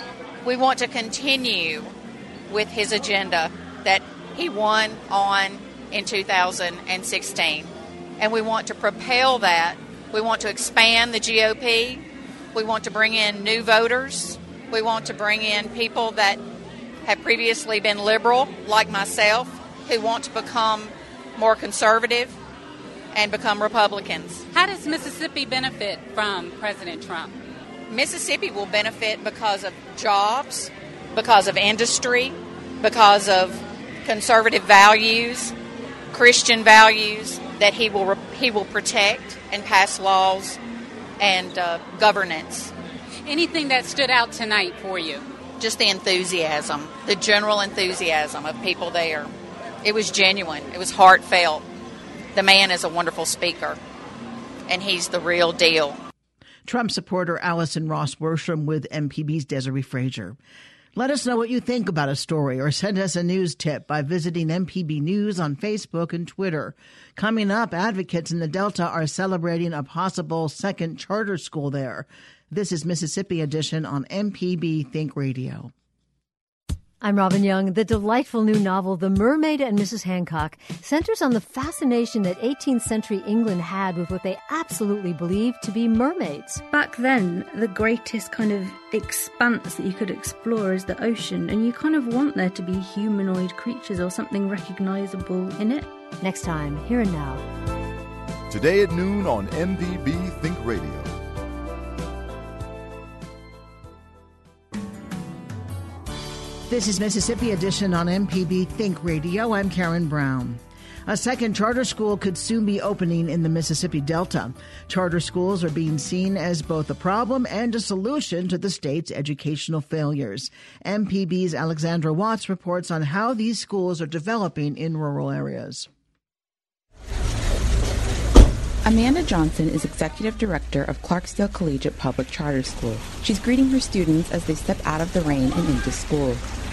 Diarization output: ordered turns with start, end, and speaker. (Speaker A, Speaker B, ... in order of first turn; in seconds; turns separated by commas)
Speaker A: 0.4-1.9, Speaker A: 2.5-12.0, Speaker A: 12.5-16.4, Speaker A: 17.1-22.3, Speaker A: 23.1-24.4, Speaker B: 24.5-27.4, Speaker A: 27.9-35.5, Speaker A: 36.1-40.6, Speaker A: 41.2-42.7, Speaker B: 43.2-45.2, Speaker A: 45.6-49.3, Speaker A: 49.8-51.6, Speaker A: 52.3-53.8, Speaker A: 54.7-56.0, Speaker C: 56.6-60.4, Speaker C: 60.9-75.7, Speaker D: 77.0-86.6, Speaker E: 86.7-95.9, Speaker D: 96.2-97.4, Speaker F: 98.5-101.2, Speaker C: 106.7-125.9, Speaker G: 128.8-136.4